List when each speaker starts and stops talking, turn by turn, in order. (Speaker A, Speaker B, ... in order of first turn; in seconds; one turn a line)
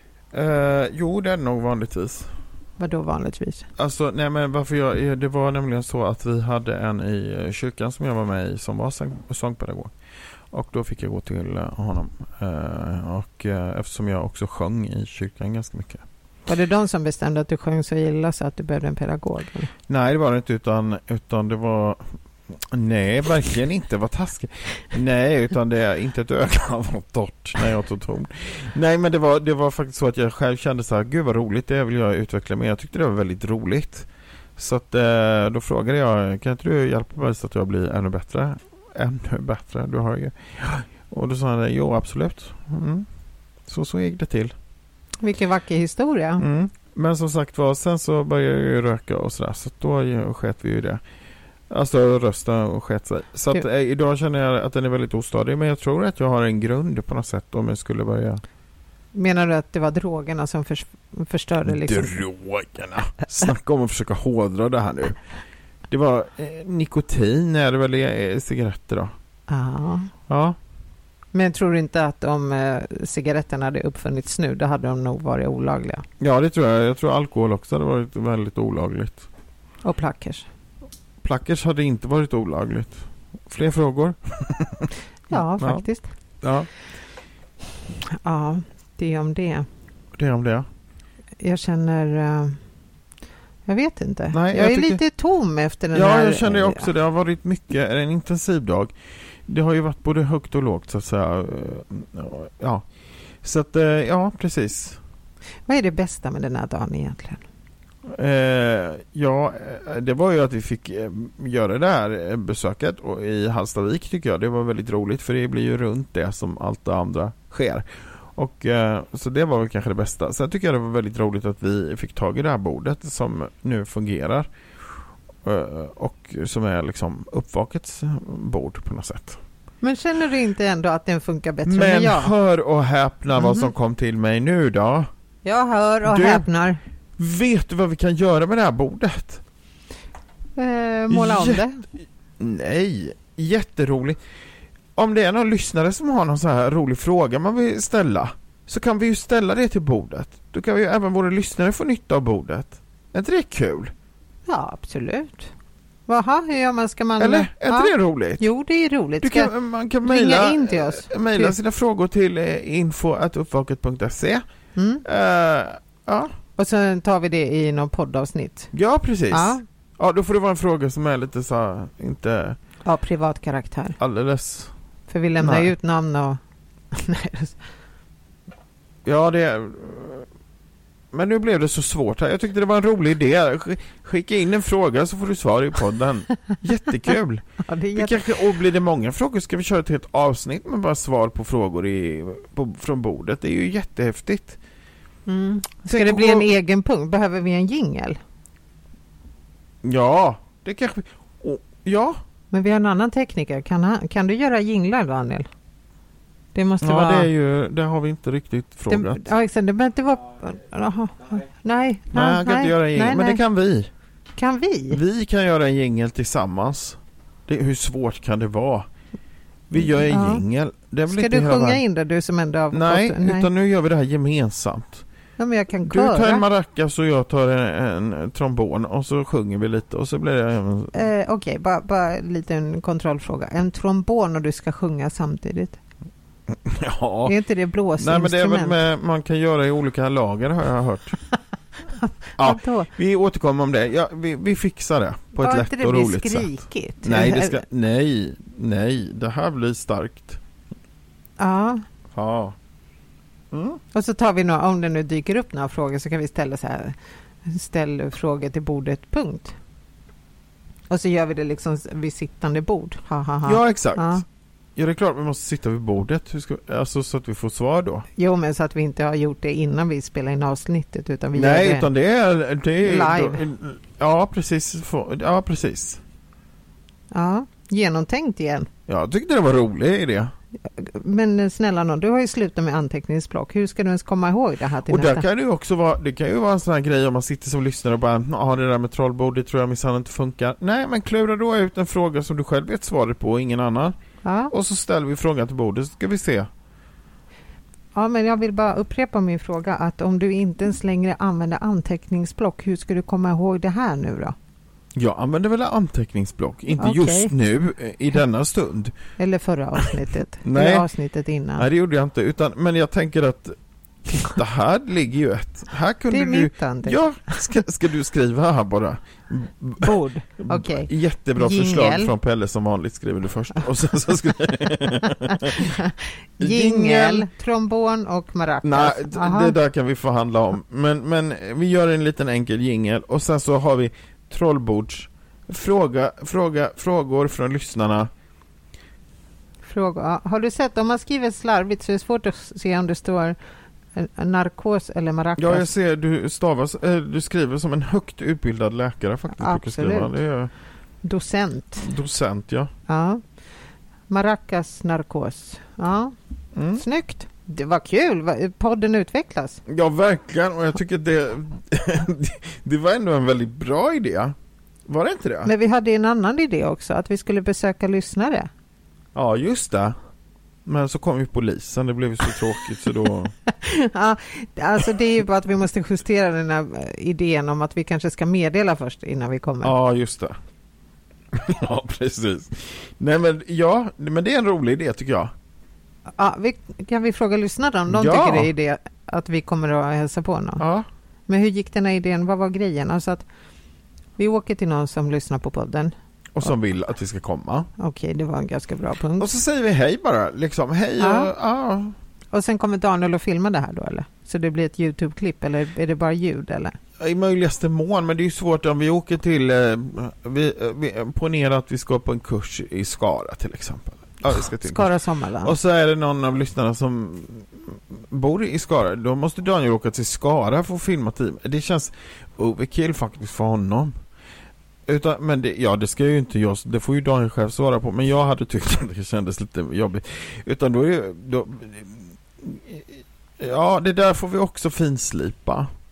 Speaker A: 0.3-2.3
Speaker B: 2.8-3.7
Speaker A: 3.8-9.9
Speaker A: 10.5-16.0
Speaker B: 16.5-19.7
Speaker A: 19.9-43.1
Speaker A: 43.7-44.5
Speaker B: 45.2-46.4
Speaker A: 46.4-51.0
Speaker A: 51.7-58.4
Speaker B: 59.1-62.2
Speaker A: 61.7-65.2
Speaker A: 65.9-69.1
Speaker B: 69.5-70.1
Speaker A: 70.3-70.6
Speaker B: 71.3-76.0
Speaker A: 76.2-79.3
Speaker B: 79.8-80.5
Speaker A: 81.2-85.8
Speaker B: 85.3-86.1
Speaker A: 86.4-86.7
Speaker B: 88.1-89.7
Speaker A: 90.2-90.7
Speaker B: 91.4-92.6
Speaker B: 93.7-96.9
Speaker A: 94.3-95.0
Speaker A: 95.9-98.9
Speaker A: 99.5-102.9
Speaker A: 103.4-105.0
Speaker B: 105.7-107.5
Speaker A: 108.1-124.5
Speaker A: 125.4-129.4
Speaker B: 129.8-132.3
Speaker A: 131.7-135.1
Speaker B: 133.4-133.7
Speaker B: 135.4-136.8
Speaker A: 136.1-136.5
Speaker A: 137.2-139.4
Speaker B: 140.6-141.8
Speaker A: 141.1-141.6
Speaker A: 142.4-144.2
Speaker A: 145.0-153.9
Speaker B: 154.5-155.5
Speaker B: 156.1-159.5
Speaker A: 157.2-158.4
Speaker A: 159.2-164.4
Speaker B: 160.0-161.6
Speaker B: 164.8-165.0
Speaker A: 165.1-166.3
Speaker B: 166.6-168.7
Speaker A: 168.7-172.6
Speaker B: 169.3-169.6
Speaker B: 172.8-174.0
Speaker A: 174.0-174.7
Speaker B: 175.1-176.4
Speaker A: 175.4-175.7
Speaker B: 176.9-177.6
Speaker A: 179.1-180.3
Speaker A: 181.1-187.4
Speaker B: 187.6-188.2
Speaker A: 187.9-194.6
Speaker B: 195.3-198.2
Speaker A: 195.9-196.5
Speaker A: 199.8-202.2
Speaker B: 202.5-205.5
Speaker B: 206.5-207.3
Speaker A: 206.8-209.3
Speaker B: 208.9-213.4
Speaker A: 212.1-213.9
Speaker B: 214.4-215.0
Speaker A: 214.9-218.9
Speaker A: 219.7-221.8
Speaker B: 219.8-220.4
Speaker B: 221.1-223.5
Speaker A: 222.7-225.0
Speaker B: 225.4-226.4
Speaker A: 225.8-231.1
Speaker B: 230.9-235.8
Speaker A: 236.5-237.3
Speaker B: 237.2-238.8
Speaker A: 238.0-241.2
Speaker B: 241.9-242.9
Speaker A: 242.4-250.4
Speaker B: 245.4-247.6
Speaker B: 251.4-251.8
Speaker A: 252.1-252.6
Speaker A: 253.5-253.8
Speaker B: 253.9-259.6
Speaker B: 260.9-264.2
Speaker A: 263.4-264.2
Speaker A: 264.8-268.1
Speaker B: 268.2-271.9
Speaker A: 271.3-276.0
Speaker B: 272.8-273.4
Speaker B: 277.1-278.7
Speaker A: 278.9-280.3
Speaker B: 280.6-285.3
Speaker A: 284.9-293.9
Speaker B: 294.2-294.5
Speaker A: 294.5-296.5
Speaker B: 297.9-304.4
Speaker A: 304.9-308.9
Speaker B: 306.8-307.3
Speaker B: 309.2-311.7
Speaker A: 310.4-310.9
Speaker A: 311.6-325.7
Speaker B: 316.1-317.6
Speaker B: 319.8-322.1
Speaker B: 325.3-329.6
Speaker A: 326.4-327.3
Speaker A: 328.6-338.1
Speaker B: 339.6-343.4
Speaker B: 343.9-345.7
Speaker A: 345.4-350.5
Speaker B: 349.3-350.1
Speaker B: 351.0-351.9
Speaker A: 351.8-352.7
Speaker B: 352.9-353.2
Speaker B: 354.1-356.1
Speaker A: 356.6-356.8
Speaker B: 356.8-359.6
Speaker A: 359.7-364.4
Speaker A: 364.9-365.5
Speaker B: 365.4-368.5
Speaker A: 369.1-370.0
Speaker A: 370.7-373.3
Speaker B: 373.5-379.7
Speaker A: 379.6-380.4
Speaker A: 381.3-385.3
Speaker B: 386.2-390.6
Speaker A: 387.9-388.5
Speaker A: 390.6-390.9
Speaker B: 391.3-393.3
Speaker B: 394.2-395.9
Speaker A: 396.3-397.7
Speaker B: 397.8-399.3
Speaker A: 399.2-402.0
Speaker B: 401.0-401.3
Speaker B: 402.3-406.8
Speaker A: 407.0-414.9
Speaker B: 414.3-415.6
Speaker A: 415.4-424.0
Speaker A: 424.9-435.7